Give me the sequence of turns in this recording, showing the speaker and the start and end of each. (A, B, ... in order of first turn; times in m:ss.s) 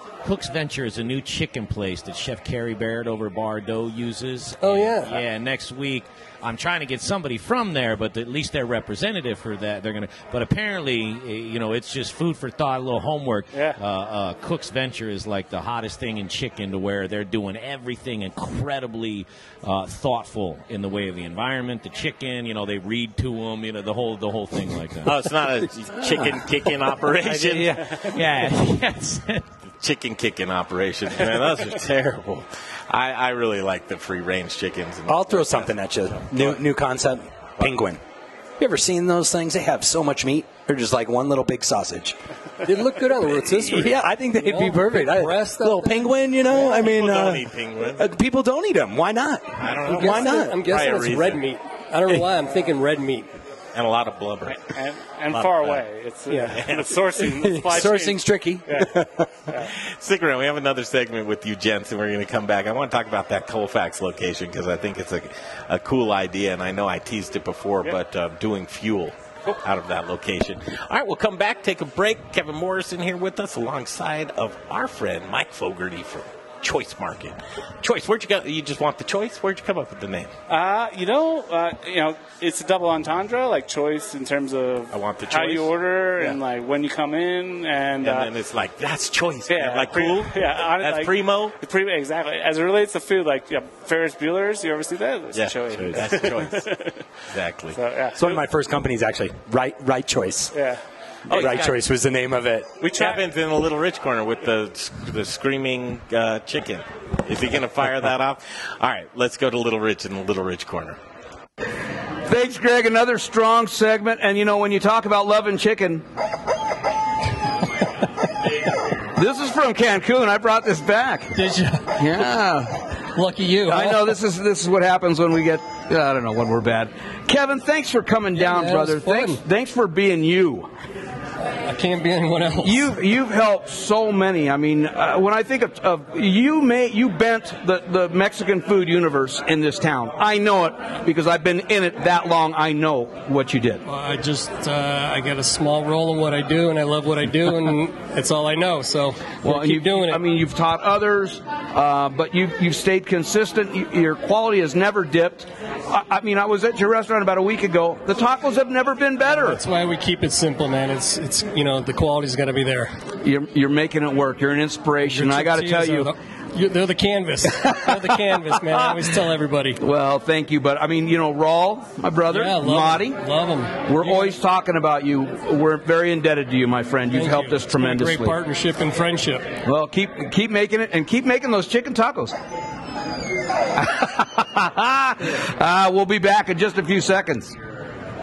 0:00.2-0:25.3 A
0:04.6-0:05.2 B
0:13.5-0:13.8 C
0:25.0-0:28.1 D
0:28.0-0:29.4 A
0:29.8-0:36.6 D
0:35.1-0:38.0 E
0:38.6-0:42.2 E
0:42.6-0:46.8 B
0:43.1-0:50.6 E
0:46.5-0:48.1 D
0:49.6-0:51.4 D
0:49.9-0:53.3 B
0:53.7-0:54.6 D
0:54.5-0:58.9 C
0:55.3-0:55.8 D
0:56.3-0:56.6 B
0:56.5-0:57.2 D
0:57.3-0:59.4 E
0:59.6-1:20.3 D
1:20.5-1:28.3 C
1:24.9-1:26.4 D
1:28.0-1:31.6 D
1:29.5-1:37.0 C
1:35.3-1:36.7 D
1:37.3-1:37.8 D
1:37.7-1:38.4 C
1:38.2-1:40.5 E
1:40.5-1:40.8 C
1:41.3-1:42.7 E
1:41.3-1:41.8 D
1:41.3-1:41.6 C
1:42.8-1:43.2 C
1:42.8-1:51.0 D
1:52.3-1:56.0 F
1:59.2-2:01.3 F
2:01.3-2:02.2 B
2:02.0-2:02.8 F
2:03.1-2:04.2 B
2:03.7-2:10.7 F
2:08.4-2:09.4 B
2:11.6-2:12.9 B
2:12.6-2:23.8 F
2:23.8-2:30.2 B
2:29.4-2:39.6 F
2:39.4-2:42.9 B
2:43.2-2:46.1 F
2:45.0-2:49.8 B
2:49.8-2:53.2 F
2:52.3-2:54.4 B
2:53.8-2:58.4 F
2:57.1-2:59.5 B
2:59.6-3:02.3 F
3:03.7-3:07.5 F